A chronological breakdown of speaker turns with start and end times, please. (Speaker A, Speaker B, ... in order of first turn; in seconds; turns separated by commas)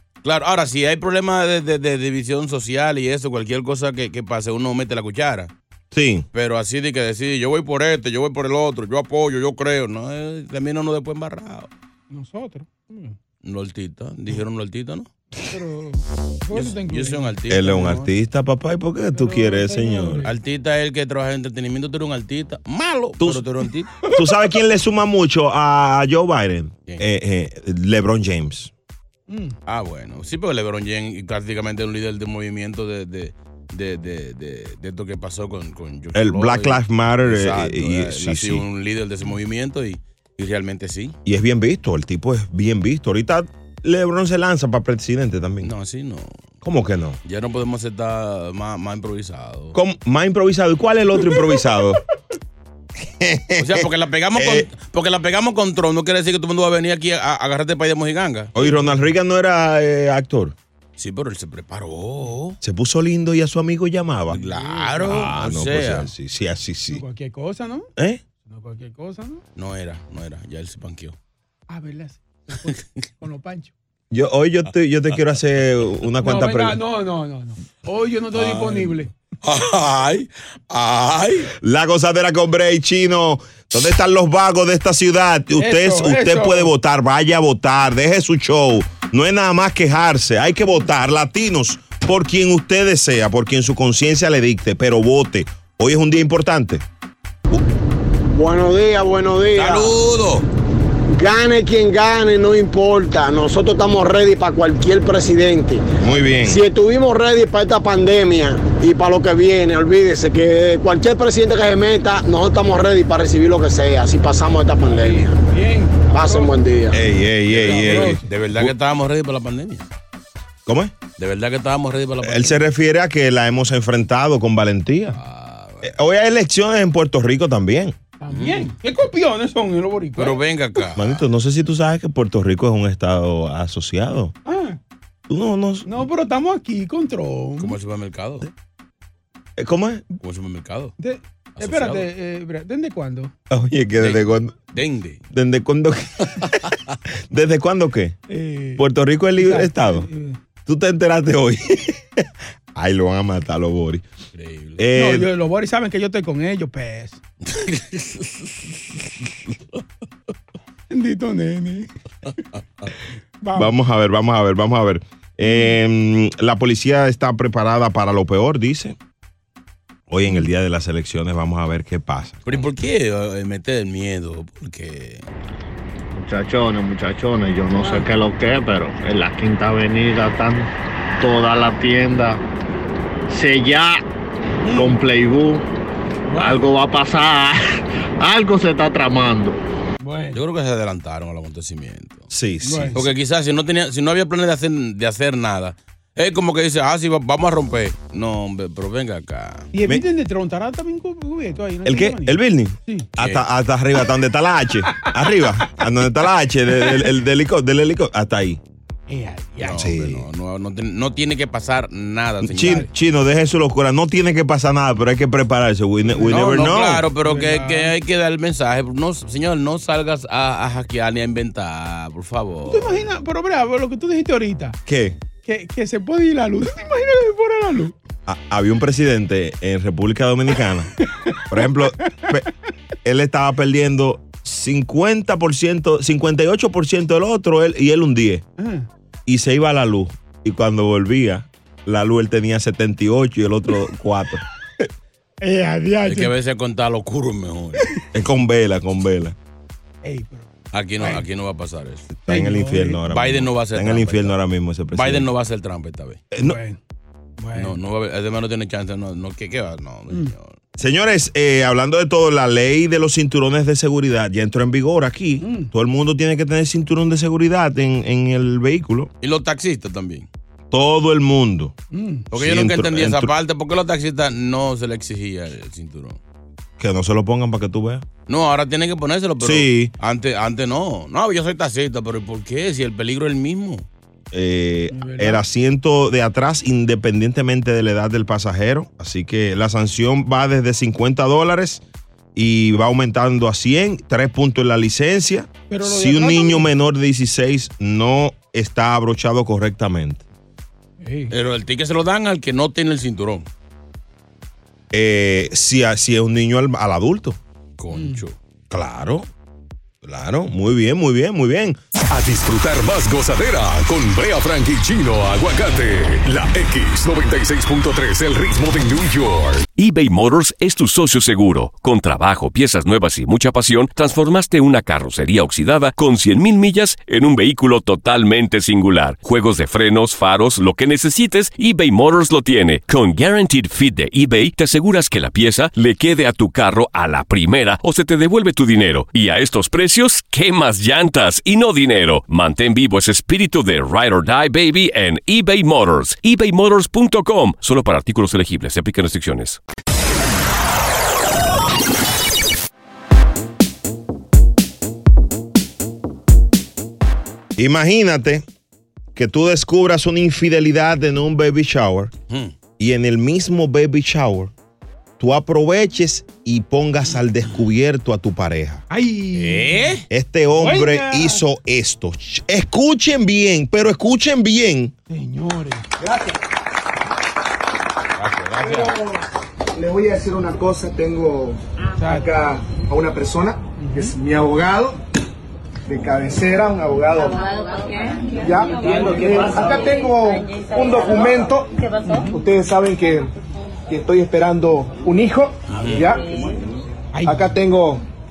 Speaker A: 0.2-5.5, Speaker B: 5.9-6.2, Speaker A: 6.3-11.7, Speaker C: 12.1-13.2, Speaker A: 13.4-15.1, Speaker C: 15.5-18.0, Speaker A: 16.5-18.0, Speaker B: 17.5-20.3, Speaker C: 19.1-20.3, Speaker A: 20.2-23.9, Speaker B: 24.1-28.7, Speaker C: 29.3-29.5, Speaker A: 29.6-41.1, Speaker B: 36.1-38.6, Speaker B: 41.2-45.7, Speaker A: 45.6-46.3, Speaker B: 46.6-47.2, Speaker A: 47.2-49.8, Speaker B: 49.7-52.0, Speaker B: 53.0-54.7, Speaker A: 53.6-58.5, Speaker B: 58.5-60.5, Speaker C: 58.6-59.0, Speaker A: 61.0-62.6, Speaker B: 62.6-64.4, Speaker A: 64.3-66.1, Speaker C: 64.4-65.3, Speaker B: 65.0-67.0, Speaker C: 66.9-67.9, Speaker C: 68.4-69.4, Speaker A: 69.5-71.2, Speaker C: 71.7-73.7, Speaker B: 74.1-76.8, Speaker C: 76.2-79.1, Speaker A: 78.4-81.5, Speaker B: 81.6-96.8, Speaker C: 85.6-86.7, Speaker D: 98.3-100.0, Speaker A: 99.5-100.5, Speaker D: 101.1-105.8, Speaker B: 106.0-106.6, Speaker D: 106.4-115.4, Speaker C: 114.8-116.6, Speaker D: 116.1-117.0, Speaker B: 116.9-118.7, Speaker A: 117.5-119.9, Speaker C: 117.6-118.3, Speaker B: 120.7-120.9, Speaker A: 121.2-122.6, Speaker B: 122.2-125.2, Speaker A: 125.2-125.9, Speaker B: 125.8-128.0, Speaker C: 128.2-130.4, Speaker A: 128.3-128.7, Speaker A: 130.2-131.2, Speaker B: 130.9-134.3, Speaker C: 134.4-134.8, Speaker B: 135.3-136.0, Speaker C: 135.8-137.8, Speaker A: 137.6-138.5, Speaker B: 139.6-140.0, Speaker A: 140.2-140.9, Speaker C: 141.0-143.3, Speaker A: 141.6-142.1, Speaker B: 143.5-144.5, Speaker A: 144.0-145.2, Speaker B: 145.3-146.5, Speaker B: 147.3-148.2, Speaker C: 148.3-148.8, Speaker B: 148.8-150.1, Speaker C: 149.4-150.4, Speaker B: 150.7-152.2, Speaker B: 152.7-154.0, Speaker A: 154.3-154.8, Speaker B: 154.8-155.3, Speaker C: 154.9-157.2, Speaker A: 157.5-158.6, Speaker C: 160.9-161.9, Speaker C: 163.4-163.7, Speaker B: 163.5-168.9, Speaker C: 165.4-165.7, Speaker B: 170.1-172.6, Speaker A: 172.4-175.3, Speaker E: 176.2-182.4, Speaker E: 183.3-184.0, Speaker C: 184.7-185.0, Speaker E: 184.7-185.6, Speaker C: 186.3-186.7, Speaker E: 186.3-189.6, Speaker C: 190.0-190.4, Speaker A: 190.3-192.3, Speaker B: 192.3-193.1, Speaker C: 192.6-193.0, Speaker A: 192.9-199.7, Speaker C: 199.7-203.1, Speaker B: 201.8-208.6, Speaker A: 203.2-203.4, Speaker C: 209.1-209.9, Speaker A: 209.6-212.8, Speaker B: 209.8-210.2, Speaker B: 212.4-217.1, Speaker C: 216.1-216.7, Speaker A: 216.3-223.0, Speaker C: 217.2-217.9, Speaker C: 222.7-224.8, Speaker B: 224.8-225.2, Speaker C: 225.4-227.9, Speaker B: 228.3-232.5, Speaker B: 233.0-238.4, Speaker C: 238.6-238.9, Speaker B: 239.2-244.4, Speaker C: 245.4-246.3, Speaker A: 246.0-247.9, Speaker B: 248.1-249.3, Speaker C: 250.0-251.2, Speaker A: 250.7-252.1, Speaker B: 252.2-255.3, Speaker C: 252.3-253.0, Speaker A: 253.1-254.3, Speaker A: 254.9-256.2, Speaker B: 256.3-256.6, Speaker C: 256.4-256.8, Speaker C: 257.4-257.8, Speaker A: 257.5-260.5, Speaker B: 260.8-269.1, Speaker C: 265.4-265.7, Speaker A: 269.2-270.3, Speaker B: 270.7-271.7, Speaker C: 271.9-272.3, Speaker B: 272.3-273.3, Speaker A: 272.3-276.2, Speaker B: 276.8-278.0, Speaker A: 278.3-283.8, Speaker B: 279.4-279.9, Speaker B: 284.3-291.8, Speaker C: 284.9-285.4, Speaker B: 292.3-300.2, Speaker C: 295.7-296.7, Speaker C: 301.0-301.3, Speaker A: 301.3-303.5, Speaker B: 304.9-307.4, Speaker A: 307.8-308.3, Speaker C: 307.9-308.2, Speaker B: 308.7-309.3, Speaker B: 310.0-311.8, Speaker F: 312.1-319.6, Speaker G: 319.8-349.6, Speaker B: 357.6-358.4, Speaker B: 359.1-362.1, Speaker B: 362.8-364.5, Speaker B: 365.2-368.8, Speaker C: 368.9-370.0, Speaker A: 369.3-370.0, Speaker B: 370.1-374.9, Speaker C: 370.6-371.4, Speaker C: 375.1-375.8, Speaker H: 376.0-376.4, Speaker A: 378.2-379.0, Speaker H: 378.6-379.2, Speaker H: 379.7-385.0, Speaker C: 382.0-382.3, Speaker C: 383.8-384.1, Speaker H: 385.9-387.4, Speaker H: 388.3-391.7, Speaker C: 392.0-392.3, Speaker H: 392.3-393.3, Speaker H: 393.9-396.6, Speaker A: 395.7-396.1, Speaker C: 397.1-397.5, Speaker H: 397.2-398.0